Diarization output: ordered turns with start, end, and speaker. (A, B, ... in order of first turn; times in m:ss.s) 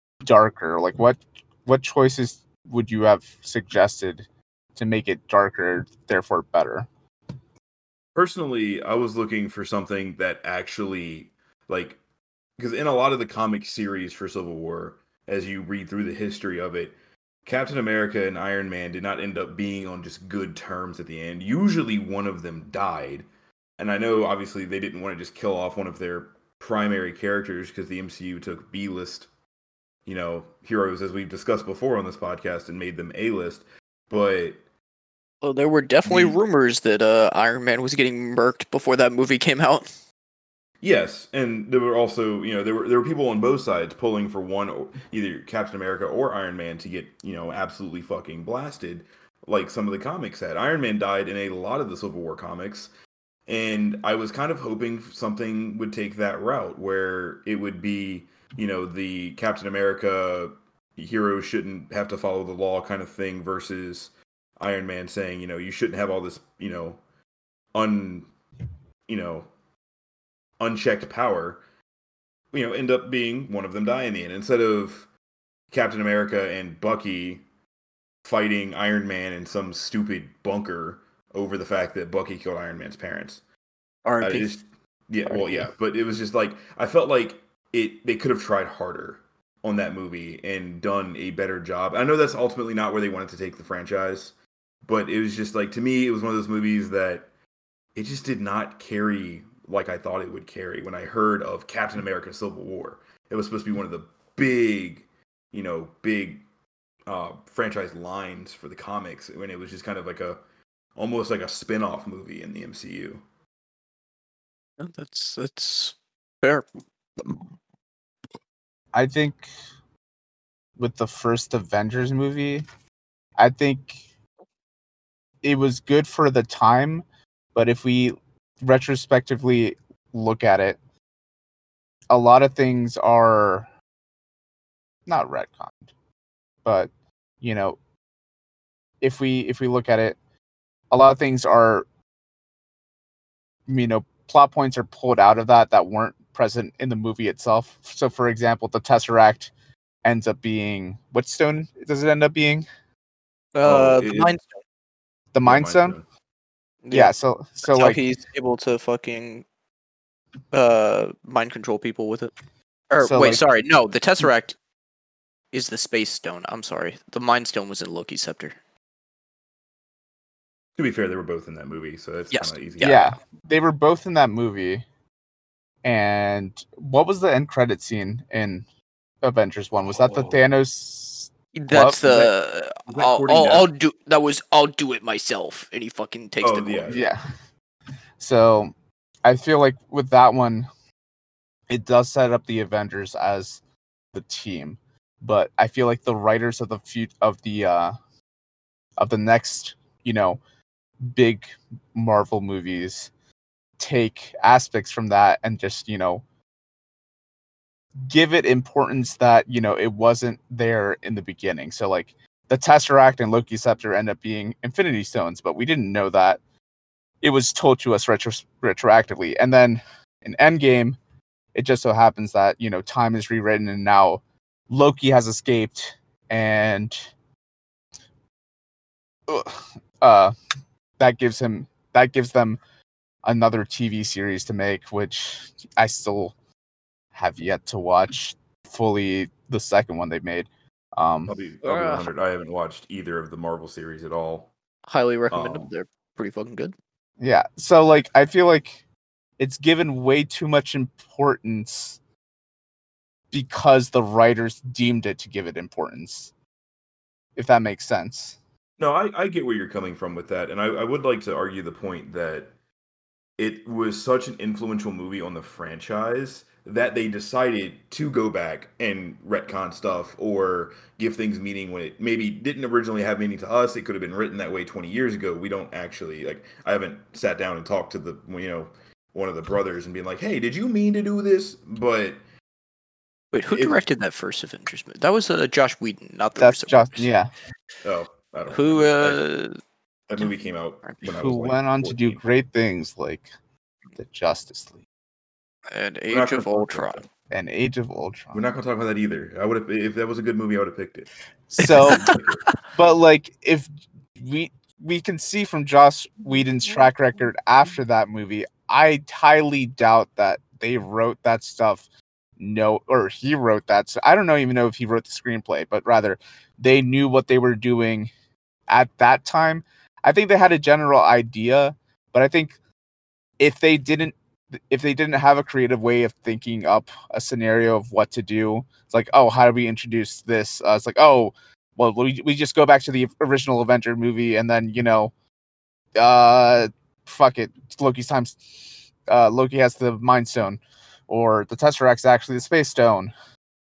0:00.2-0:04.2 A
0:04.8-0:06.9 A
0:08.1-0:12.0 B
0:12.6-0:16.9 B
0:17.4-0:23.2 B
0:23.8-0:29.3 B
0:30.0-0:34.6 B
0:35.4-0:39.9 C
0:36.0-0:36.4 B
0:40.8-0:52.9 B
0:53.5-1:07.0 B
1:07.7-1:08.3 B
1:09.1-1:09.5 B
1:10.6-1:11.6 B
1:12.5-1:15.1 B
1:15.7-1:17.4 B
1:18.2-1:23.4 B
1:24.0-1:24.5 C
1:24.2-1:34.3 B
1:34.8-1:37.3 B
1:37.9-1:46.4 B
1:47.0-1:50.4 B
1:51.0-1:53.2 B
1:54.8-1:56.7 C
1:58.9-1:59.5 A
2:00.8-2:02.6 A
2:03.4-2:04.0 A
2:05.4-2:07.0 A
2:07.5-2:10.8 A
2:12.1-2:13.7 A
2:15.0-2:15.9 A
2:16.6-2:16.9 A
2:17.4-2:17.8 A
2:19.0-2:20.2 A
2:20.9-2:21.8 A
2:23.7-2:29.5 A
2:30.0-2:32.6 A
2:33.5-2:34.4 C
2:33.6-2:34.4 B
2:35.3-2:36.0 A
2:35.4-2:36.0 B
2:36.8-2:39.4 C
2:36.9-2:38.0 A
2:40.5-2:42.3 C
2:42.9-2:44.6 C
2:43.0-2:43.4 A
2:45.5-2:48.6 C
2:50.8-2:53.1 B
2:52.3-2:53.1 C
2:52.8-2:54.8 A
2:55.8-2:58.6 A
2:59.2-3:02.0 A
2:59.8-3:00.4 B
3:01.5-3:06.9 C
3:02.0-3:02.3 B
3:02.8-3:03.7 B
3:06.4-3:07.1 B
3:06.9-3:07.2 A
3:08.2-3:08.7 A
3:09.2-3:10.7 A
3:11.7-3:13.6 A
3:14.1-3:18.0 A
3:19.0-3:20.4 A
3:21.0-3:23.1 A
3:23.8-3:26.2 A
3:28.0-3:36.4 A
3:37.2-3:41.0 A
3:41.5-3:47.1 A
3:49.3-3:50.3 A
3:51.0-3:52.6 A
3:53.2-3:56.3 A
3:57.1-4:01.3 A
4:01.2-4:04.5 B
4:01.6-4:02.0 C
4:04.9-4:06.7 C
4:05.3-4:05.7 B
4:07.2-4:08.8 A
4:09.4-4:12.0 A
4:13.3-4:16.3 A
4:17.4-4:18.4 A
4:18.8-4:22.5 B
4:23.4-4:42.2 B
4:43.3-4:47.1 C
4:43.5-4:43.8 B
4:46.4-4:47.3 A
4:47.8-4:49.2 B
4:48.5-4:49.5 C
4:50.1-4:52.2 B
4:51.2-4:53.3 A
4:54.0-4:54.8 A
4:55.7-4:57.0 C
4:56.1-4:57.1 B
4:57.3-4:58.4 A
4:58.3-5:01.1 B
5:01.5-5:02.1 A
5:01.6-5:02.6 C
5:01.8-5:02.4 B
5:02.8-5:11.8 A
5:12.4-5:18.1 A
5:18.7-5:22.6 A
5:23.4-5:35.1 A
5:36.0-5:43.1 A